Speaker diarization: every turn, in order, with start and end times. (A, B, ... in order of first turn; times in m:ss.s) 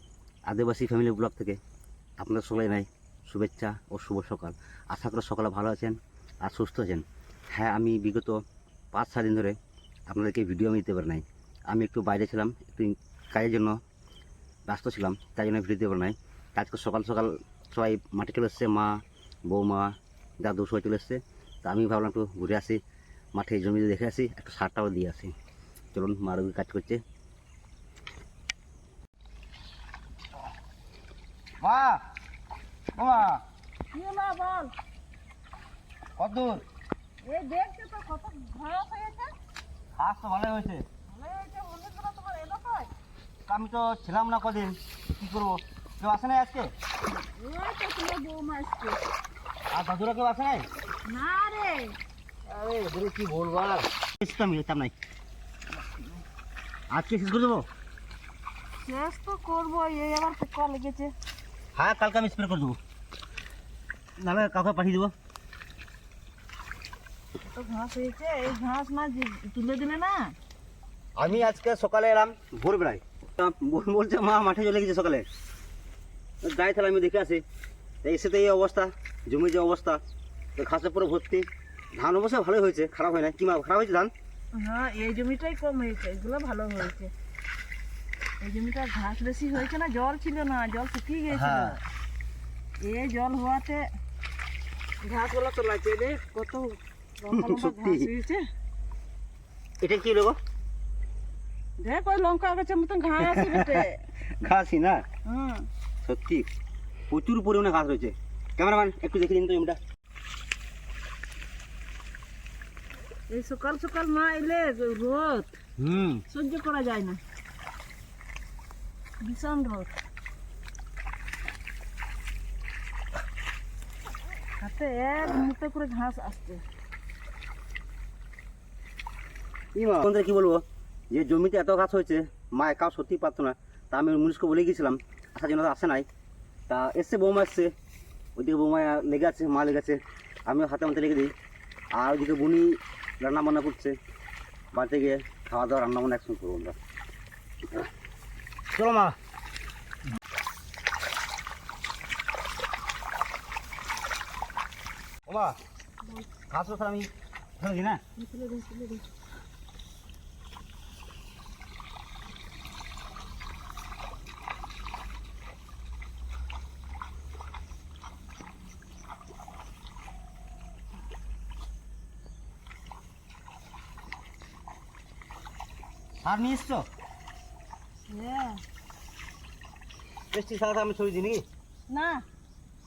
0:00.5-0:01.6 A
0:02.2-0:08.4 A
0:08.9-0:09.6 A
0:10.1-0:13.8 A
0:14.7-0:22.8 A
0:23.4-0:25.3 A
0:25.9-0:27.0 A
0:31.6-0:32.0 A
0:32.9-0:33.4 A
0:33.9-0:34.7 B
0:36.2-0:36.6 A
0:37.2-0:39.3 B
0:40.0-0:40.8 A
0:41.1-0:42.9 B
0:43.5-0:46.7 A
0:47.1-0:49.0 B
0:49.7-0:50.6 A
0:51.0-0:52.0 B
0:52.5-0:54.9 A
0:55.8-0:56.2 B
0:56.9-0:57.6 A
0:58.8-1:01.1 B
1:01.7-1:02.8 A
1:04.2-1:05.1 A
1:07.5-1:10.3 B
1:11.2-1:15.2 A
1:16.4-1:17.4 A
1:18.0-1:20.0 A
1:20.6-1:24.1 A
1:24.5-1:27.1 B
1:28.4-1:31.8 B
1:31.3-1:31.8 A
1:32.8-1:33.8 B
1:35.0-1:38.4 B
1:37.3-1:38.1 A
1:39.8-1:40.4 A
1:41.8-1:44.0 B
1:43.2-1:45.0 A
1:45.2-1:45.7 B
1:46.0-1:46.5 A
1:47.1-1:49.8 A
1:53.3-1:55.6 B
1:55.8-1:56.2 A
1:56.3-1:57.2 B
1:59.2-1:59.9 B
2:04.6-2:06.6 B
2:09.7-2:16.1 A
2:16.7-2:17.7 A
2:18.4-2:21.3 A
2:21.9-2:24.0 A
2:24.7-2:26.8 A
2:28.7-2:29.2 A
2:35.3-2:35.6 A
2:36.5-2:38.0 A
2:38.2-2:39.0 B
2:56.2-2:56.8 A
2:58.1-2:58.6 B
3:00.3-3:01.4 A
3:01.9-3:02.2 B